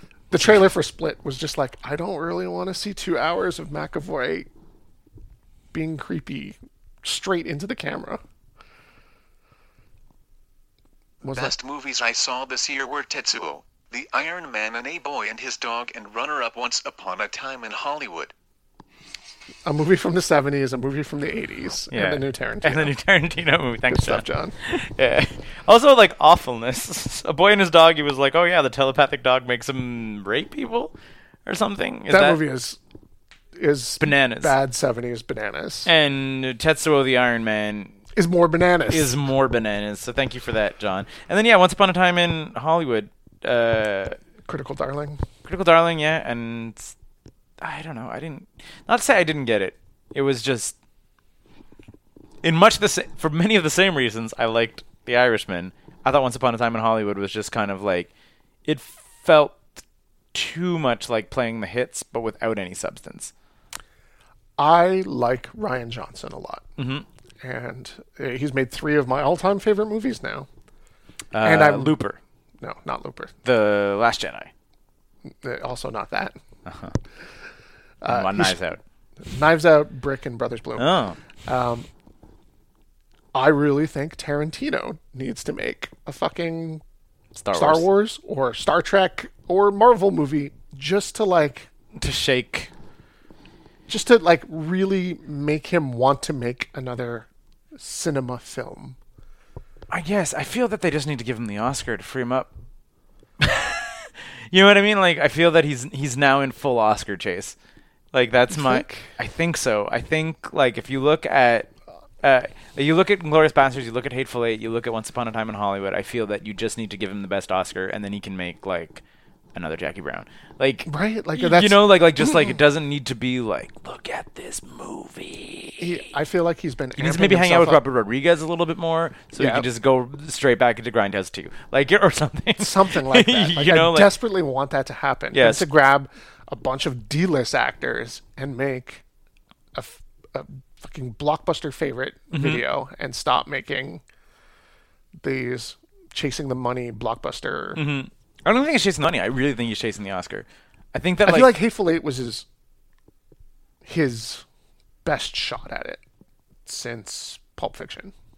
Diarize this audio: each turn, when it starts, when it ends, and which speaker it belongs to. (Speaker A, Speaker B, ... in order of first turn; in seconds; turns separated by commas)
Speaker A: 0.3-4.5, Speaker A: 5.7-8.2, Speaker A: 11.2-11.5, Speaker B: 11.3-18.3, Speaker A: 19.6-22.9, Speaker C: 21.9-30.9, Speaker A: 23.9-24.6, Speaker C: 31.4-32.4, Speaker A: 32.1-32.8, Speaker A: 33.5-35.9, Speaker C: 34.0-34.5, Speaker C: 35.9-38.0, Speaker A: 38.1-39.1, Speaker C: 38.9-44.2, Speaker A: 44.5-45.2, Speaker C: 45.4-46.9, Speaker C: 47.6-50.7, Speaker C: 52.4-58.1, Speaker C: 58.6-63.3, Speaker A: 64.6-66.7, Speaker C: 66.8-67.0, Speaker A: 67.4-70.5, Speaker C: 71.3-72.2, Speaker A: 71.4-72.0, Speaker A: 72.6-73.3, Speaker C: 73.4-74.5, Speaker A: 75.2-76.3, Speaker C: 76.6-76.9, Speaker A: 78.0-78.6, Speaker C: 78.0-78.8, Speaker A: 79.2-80.9, Speaker C: 80.8-81.2, Speaker A: 81.5-81.9, Speaker A: 83.3-86.8, Speaker C: 87.3-87.8, Speaker A: 87.5-91.7, Speaker C: 91.9-92.7, Speaker A: 93.9-99.0, Speaker C: 99.9-102.5, Speaker C: 103.4-107.5, Speaker C: 108.1-111.7, Speaker A: 108.5-109.1, Speaker C: 112.2-119.0, Speaker C: 119.5-126.0, Speaker A: 120.8-122.6, Speaker A: 125.8-127.8, Speaker C: 127.0-134.1, Speaker A: 129.4-129.7, Speaker A: 132.6-139.0, Speaker C: 135.3-135.7, Speaker A: 139.7-144.0, Speaker C: 142.3-142.6, Speaker A: 145.2-147.8, Speaker C: 147.7-151.6, Speaker A: 151.2-152.4, Speaker A: 153.8-154.4, Speaker A: 155.0-156.0, Speaker A: 156.7-158.1